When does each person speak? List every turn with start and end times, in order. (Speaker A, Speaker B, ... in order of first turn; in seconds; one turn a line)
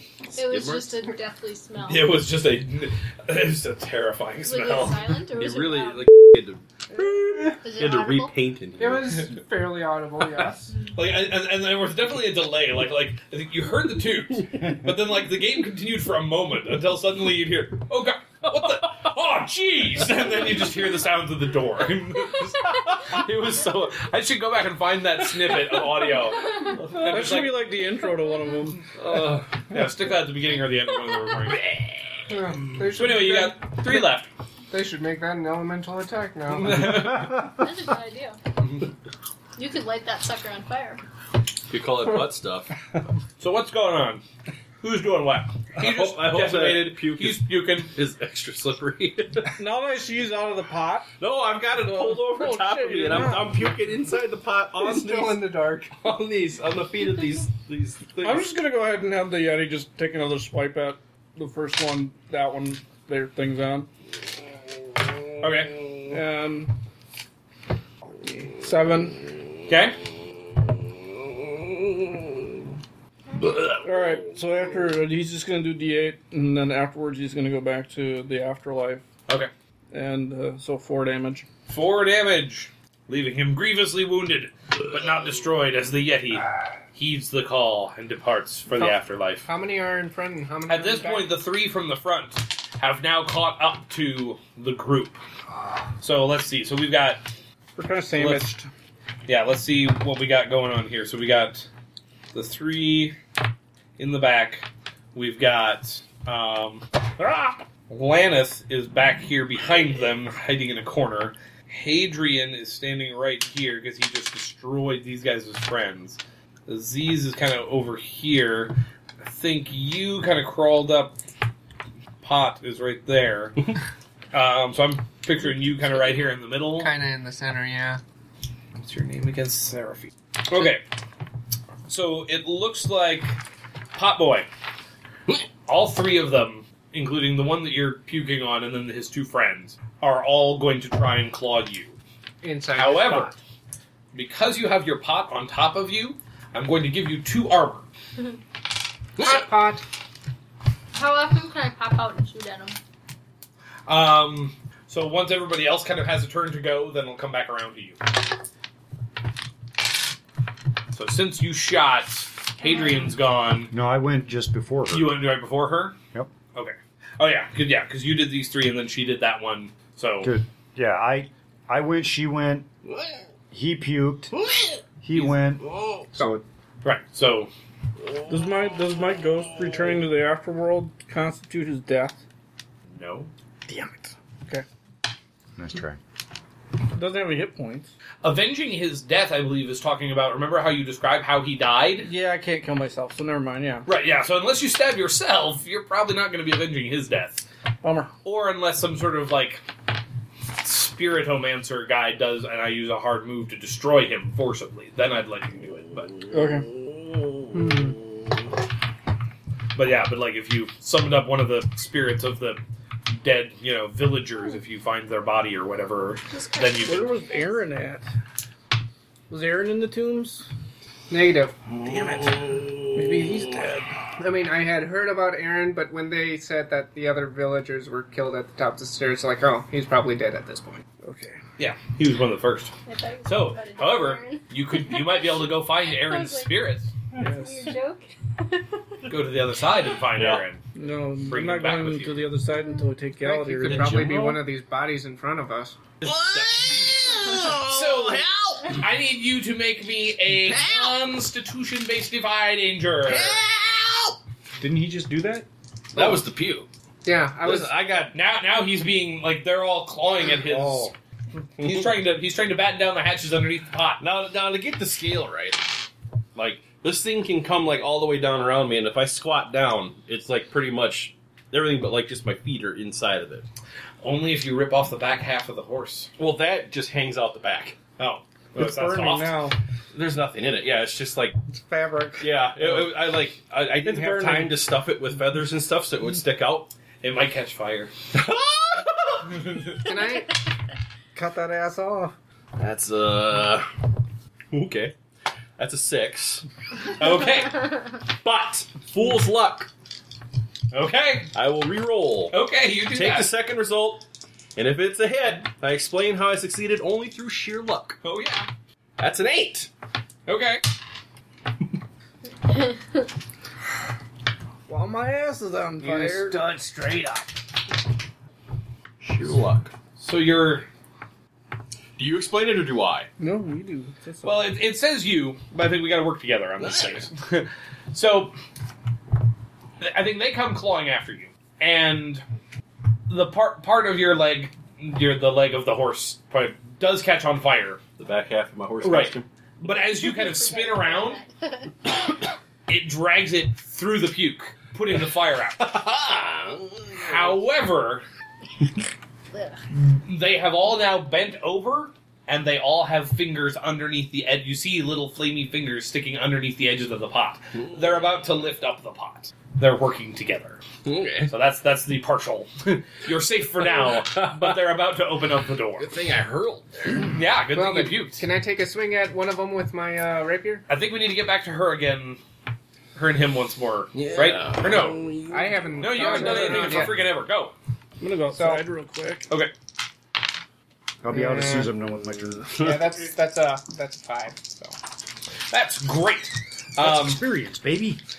Speaker A: 0.3-2.2
Speaker B: 0.4-1.0
Speaker C: 1.9-5.1
Speaker A: 4.4-6.2
Speaker B: 5.3-9.2
Speaker A: 7.0-8.3
Speaker D: 8.8-10.8
Speaker C: 10.9-27.7
Speaker B: 26.9-27.5
Speaker E: 27.0-28.9
Speaker C: 29.0-31.8
Speaker D: 32.3-34.1
Speaker C: 32.8-34.3
Speaker D: 34.7-37.1
Speaker C: 36.5-37.4
Speaker A: 37.4-38.4
Speaker A: 39.6-41.0
Speaker B: 41.7-42.8
Speaker C: 43.4-44.2
Speaker C: 44.8-48.0
Speaker B: 45.8-49.5
Speaker E: 49.5-51.1
Speaker B: 51.2-58.5
Speaker E: 51.9-53.6
Speaker D: 54.8-55.9
Speaker E: 58.2-63.9
Speaker C: 65.4-65.8
Speaker E: 66.1-66.8
Speaker E: 68.2-69.2
Speaker C: 69.7-70.0
Speaker B: 73.4-74.2
Speaker E: 73.8-79.0
Speaker E: 79.9-81.5
Speaker C: 81.7-89.5
Speaker D: 88.8-91.4
Speaker C: 90.7-95.2
Speaker C: 96.0-97.2
Speaker E: 97.8-98.7
Speaker C: 98.2-98.5
Speaker C: 99.3-101.7
Speaker C: 102.3-103.2
Speaker C: 104.0-121.2
Speaker C: 122.2-123.8
Speaker C: 124.3-126.9
Speaker D: 126.8-128.0
Speaker C: 128.8-130.8
Speaker C: 131.9-133.4
Speaker C: 133.9-134.5
Speaker C: 135.7-142.0
Speaker D: 142.4-143.3
Speaker C: 142.8-143.3
Speaker C: 144.1-147.9
Speaker D: 149.2-149.8
Speaker A: 150.9-152.8
Speaker C: 153.9-158.0
Speaker C: 160.9-163.7
Speaker A: 162.6-162.9
Speaker F: 163.7-165.2
Speaker C: 164.9-166.0
Speaker C: 166.5-170.4
Speaker F: 170.2-172.7
Speaker B: 172.8-173.2
Speaker F: 173.5-174.4
Speaker B: 174.3-176.1
Speaker F: 175.0-176.4
Speaker D: 176.2-176.4
Speaker C: 176.8-177.5
Speaker E: 178.3-182.2
Speaker C: 182.9-183.3
Speaker E: 183.7-184.7
Speaker F: 185.6-186.0
Speaker E: 186.9-187.9
Speaker C: 188.2-192.1
Speaker E: 192.0-193.9
Speaker C: 193.9-197.4
Speaker E: 197.8-198.1
Speaker C: 198.2-199.6
Speaker C: 200.6-206.1
Speaker E: 206.3-206.7
Speaker B: 207.5-207.8
Speaker D: 207.5-208.0
Speaker C: 209.8-212.6
Speaker C: 213.2-217.1
Speaker A: 216.3-217.5
Speaker E: 216.8-218.1
Speaker E: 219.3-220.5
Speaker D: 221.1-221.5
Speaker B: 221.7-223.6
Speaker E: 222.9-223.9
Speaker D: 224.2-230.8
Speaker E: 231.0-231.4
Speaker C: 231.6-232.7
Speaker A: 232.9-236.6
Speaker C: 233.2-236.9
Speaker E: 237.2-237.7
Speaker A: 237.2-239.1
Speaker C: 239.1-240.6
Speaker B: 240.1-240.4
Speaker E: 240.8-244.4
Speaker C: 241.2-242.2
Speaker D: 243.2-245.8
Speaker B: 243.6-244.4
Speaker B: 246.0-248.8
Speaker C: 246.0-253.4
Speaker B: 250.3-251.0
Speaker B: 253.1-254.2
Speaker F: 254.6-255.5
Speaker B: 255.9-256.7
Speaker D: 257.1-257.8
Speaker B: 257.4-258.1
Speaker C: 258.1-260.9
Speaker F: 260.3-260.9
Speaker C: 261.6-264.0
Speaker B: 264.0-265.6
Speaker B: 266.4-273.5
Speaker C: 274.0-276.1
Speaker B: 276.2-277.8
Speaker C: 278.0-279.4
Speaker E: 278.6-279.6
Speaker B: 279.9-281.4
Speaker E: 281.5-282.9
Speaker B: 282.2-286.7
Speaker E: 283.8-284.6
Speaker C: 287.0-287.9
Speaker B: 288.1-289.4
Speaker D: 289.8-290.4
Speaker E: 291.1-292.1
Speaker B: 292.6-293.7
Speaker B: 294.5-294.9
Speaker B: 295.6-296.5
Speaker C: 296.9-297.8
Speaker B: 298.2-299.7
Speaker C: 300.7-301.4
Speaker B: 301.3-308.0
Speaker C: 302.3-303.4
Speaker C: 308.0-308.5
Speaker B: 309.0-309.7
Speaker C: 310.3-310.6
Speaker E: 314.7-316.4
Speaker B: 316.3-317.0
Speaker B: 319.0-319.7
Speaker C: 320.0-320.7
Speaker B: 322.0-323.1
Speaker E: 323.2-324.4
Speaker C: 324.2-328.4
Speaker B: 326.6-327.1
Speaker C: 329.8-332.2
Speaker C: 333.1-337.8
Speaker B: 338.0-339.3
Speaker C: 338.8-341.2
Speaker A: 340.0-341.7
Speaker C: 342.7-345.8
Speaker B: 345.6-347.4
Speaker C: 346.9-348.0
Speaker A: 349.3-349.6
Speaker C: 349.9-360.6
Speaker B: 360.9-361.3
Speaker C: 361.3-365.9
Speaker B: 363.8-364.5
Speaker B: 365.8-367.1
Speaker C: 367.0-368.2
Speaker D: 367.5-370.6
Speaker C: 370.7-372.2
Speaker C: 372.9-375.0
Speaker B: 373.9-375.8
Speaker D: 375.3-377.0
Speaker C: 375.8-377.5
Speaker E: 375.9-376.9
Speaker E: 378.0-379.3
Speaker D: 378.3-378.6
Speaker F: 381.0-382.5
Speaker D: 381.1-381.7
Speaker D: 382.5-384.8
Speaker C: 385.5-387.2
Speaker F: 386.8-388.0